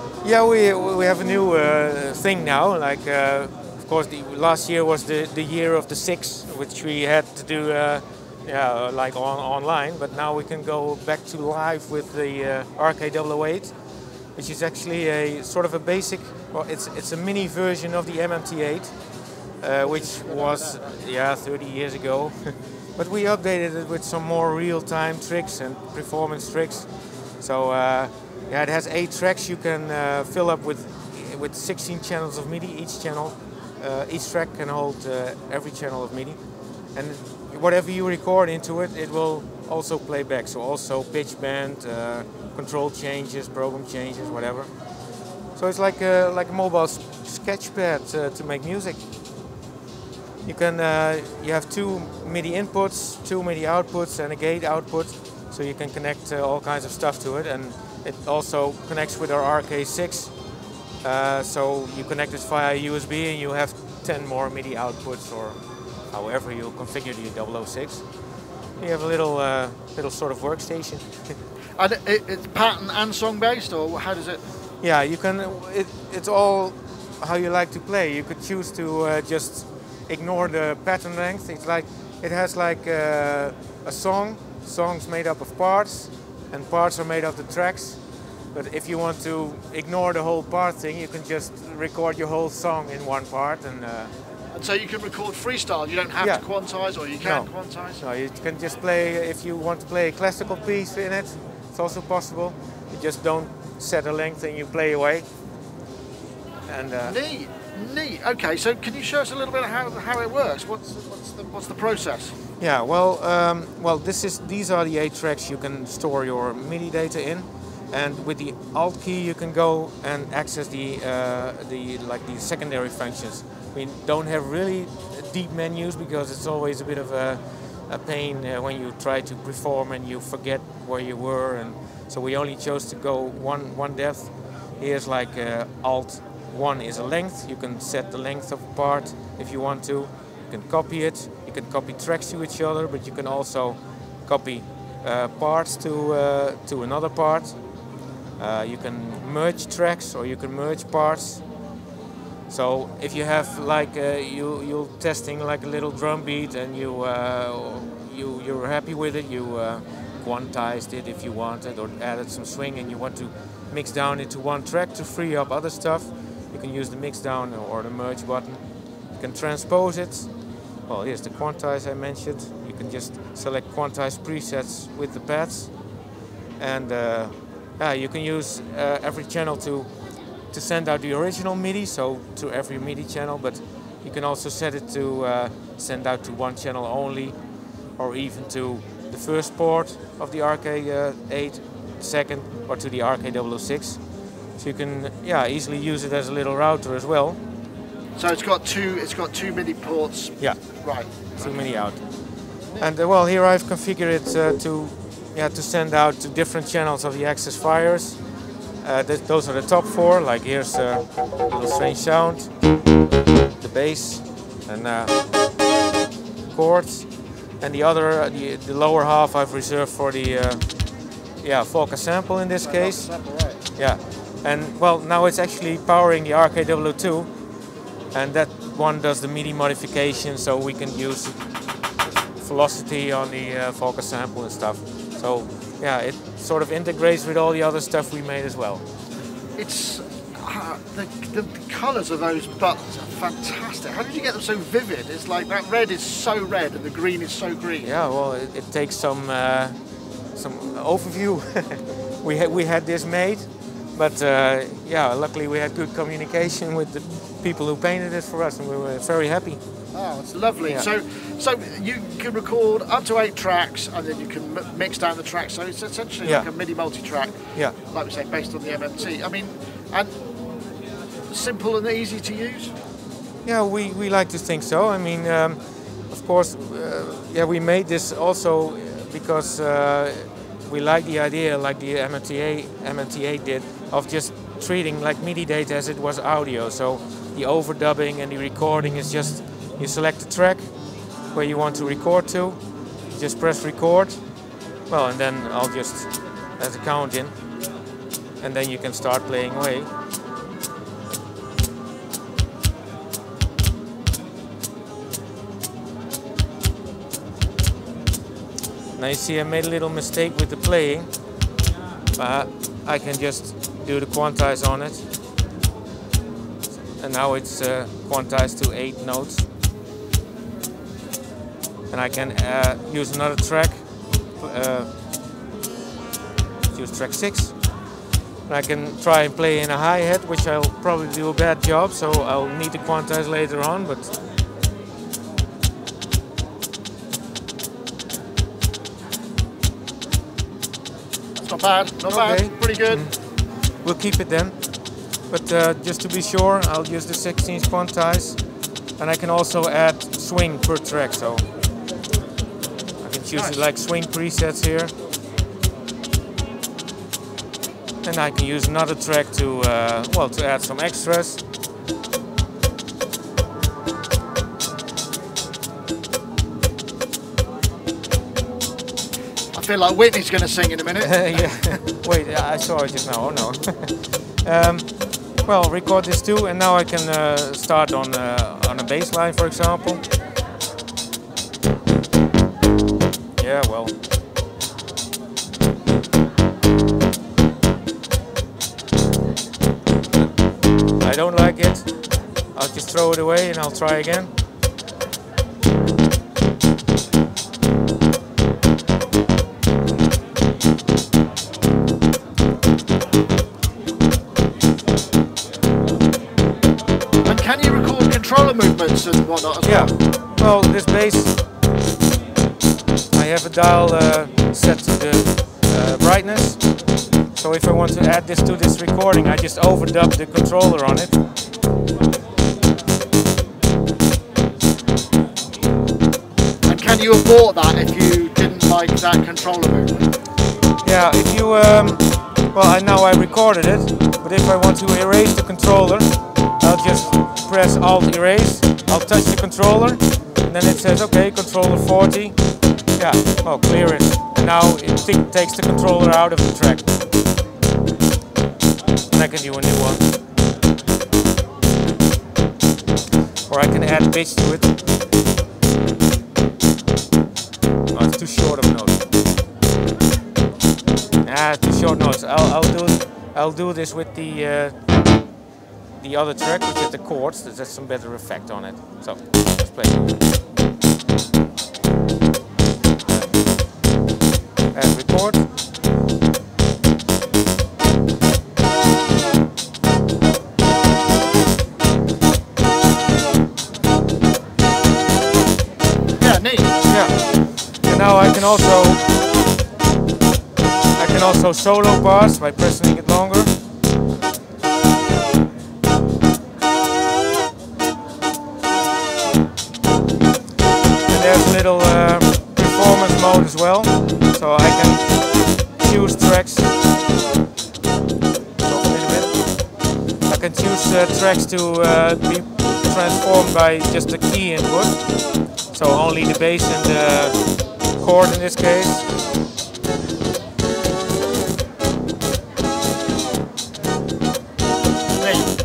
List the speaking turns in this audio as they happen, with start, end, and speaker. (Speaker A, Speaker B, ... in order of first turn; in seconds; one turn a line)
Speaker A: 0.2-13.8
Speaker A: 14.4-18.9
Speaker A: 19.6-36.4
Speaker B: 19.8-20.9
Speaker A: 37.0-44.7
Speaker A: 45.6-49.0
Speaker A: 50.5-60.3
Speaker A: 61.0-65.6
Speaker A: 66.1-68.0
Speaker A: 68.8-71.2
Speaker B: 71.8-74.4
Speaker A: 74.8-88.0
Speaker A: 88.5-94.1
Speaker B: 94.5-98.0
Speaker A: 96.2-96.5
Speaker A: 97.2-105.3
Speaker A: 106.7-107.2
Speaker B: 107.0-112.4
Speaker A: 112.6-147.6
Speaker A: 148.4-151.4
Speaker A: 152.5-170.3
Speaker A: 170.9-175.7
Speaker A: 176.6-179.9
Speaker A: 180.5-187.4
Speaker A: 188.0-194.0
Speaker A: 194.6-197.4
Speaker B: 198.2-201.6
Speaker A: 201.4-202.0
Speaker A: 202.8-208.2
Speaker A: 208.8-212.5
Speaker A: 213.6-215.2
Speaker A: 216.5-220.7
Speaker A: 221.4-223.1
Speaker B: 222.6-223.6
Speaker A: 223.8-227.3
Speaker A: 228.1-231.4
Speaker A: 232.4-238.8
Speaker B: 239.6-247.9
Speaker A: 247.8-249.8
Speaker A: 250.3-259.6
Speaker B: 259.9-270.2
Speaker B: 271.3-272.7
Speaker A: 273.4-290.7
Speaker A: 291.3-292.6
Speaker A: 293.1-294.2
Speaker A: 294.9-297.3
Speaker A: 298.4-299.9
Speaker A: 309.0-311.1
Speaker A: 312.2-315.0
Speaker A: 317.0-319.5
Speaker A: 321.9-323.8
Speaker A: 324.4-324.9
Speaker A: 326.7-327.6
Speaker A: 328.5-334.1
Speaker B: 341.4-343.1
Speaker A: 342.1-344.6
Speaker A: 345.3-348.4
Speaker A: 349.0-351.5
Speaker A: 353.0-354.9
Speaker B: 353.3-353.6
Speaker A: 358.0-361.4
Speaker B: 369.5-371.8
Speaker A: 371.0-380.0
Speaker A: 383.4-383.9
Speaker A: 391.0-391.9
Speaker A: 392.6-394.3
Speaker B: 407.2-409.9
Speaker A: 409.6-411.4
Speaker A: 413.1-416.7
Speaker A: 417.4-421.2
Speaker B: 426.7-430.1
Speaker A: 430.8-442.4
Speaker A: 443.0-447.0
Speaker A: 449.1-450.0
Speaker A: 453.5-454.7
Speaker A: 457.9-459.0
Speaker A: 461.2-464.8
Speaker A: 466.0-470.1
Speaker A: 474.7-475.5
Speaker B: 486.2-486.8
Speaker A: 486.9-489.1
Speaker A: 491.0-493.5
Speaker A: 501.1-506.7
Speaker A: 508.6-509.4
Speaker A: 510.3-515.0
Speaker A: 515.7-517.4
Speaker A: 518.0-519.1
Speaker B: 525.2-525.5